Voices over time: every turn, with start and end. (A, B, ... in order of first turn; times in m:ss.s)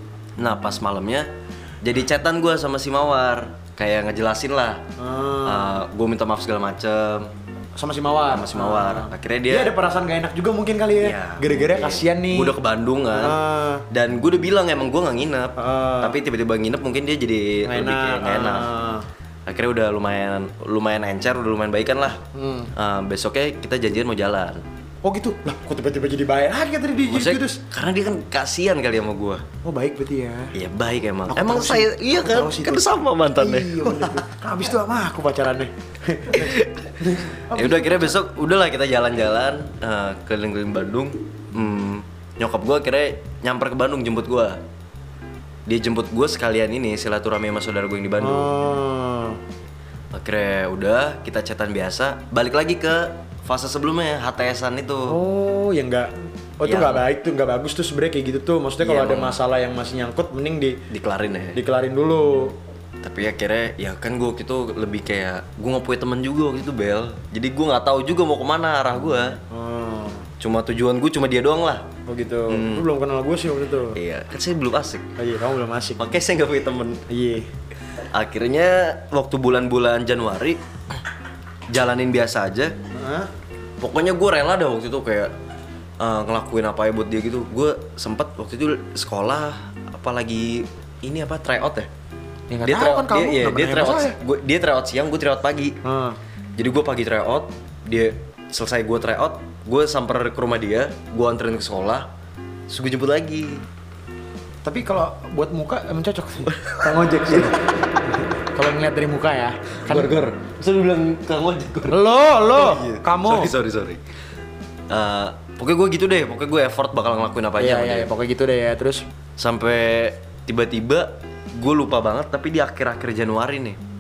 0:00.4-0:01.3 A
0:01.8-0:04.8 A
0:05.0-0:05.8 B
0:05.4-0:07.3 A
0:07.8-0:12.6 B
0:08.3-0:09.7 A
0:11.0-0:18.7 A
0:13.1-0:13.8 B
0:15.6-0:16.2 B
0:17.6-0:19.0 B
0:19.5-0:22.2 A
0:22.3-0:22.7 B
0:22.7-0:24.6 A
0:25.0-0:27.6 B
0:27.1-0:29.4 A
0:29.6-0:30.5 B
0:30.5-0:34.2 A
0:31.3-0:38.1 B
0:36.3-0:36.7 A
0:37.5-0:44.6 A
0:45.7-0:48.5 A
0:48.2-0:49.4 B
0:50.1-0:55.2 A
0:55.1-1:00.8 B
0:56.6-0:57.0 A
0:58.8-0:59.4 A
1:00.9-1:01.6 A
1:01.6-1:02.6 B
1:03.0-1:09.4 A
1:09.5-1:10.3 B
1:10.4-1:11.9 A
1:12.1-1:14.0 B
1:12.5-1:12.9 A
1:13.9-1:15.0 A
1:15.2-1:16.0 B
1:16.0-1:17.0 A
1:17.1-1:17.5 B
1:18.1-1:20.6 A
1:21.7-1:22.7 A
1:22.9-1:23.3 B
1:23.8-1:25.3 A
1:26.0-1:31.9 A
1:32.5-1:34.2 B
1:32.6-1:35.8 A
1:35.8-1:36.2 B
1:36.6-1:42.1 A
1:42.7-1:43.6 A
1:44.6-1:47.6 B
1:46.5-1:47.5 A
1:48.5-1:50.1 B
1:49.8-1:54.0 A
1:51.9-1:53.5 B
1:54.9-1:58.1 A
1:57.6-1:59.0 B
1:59.4-2:03.8 A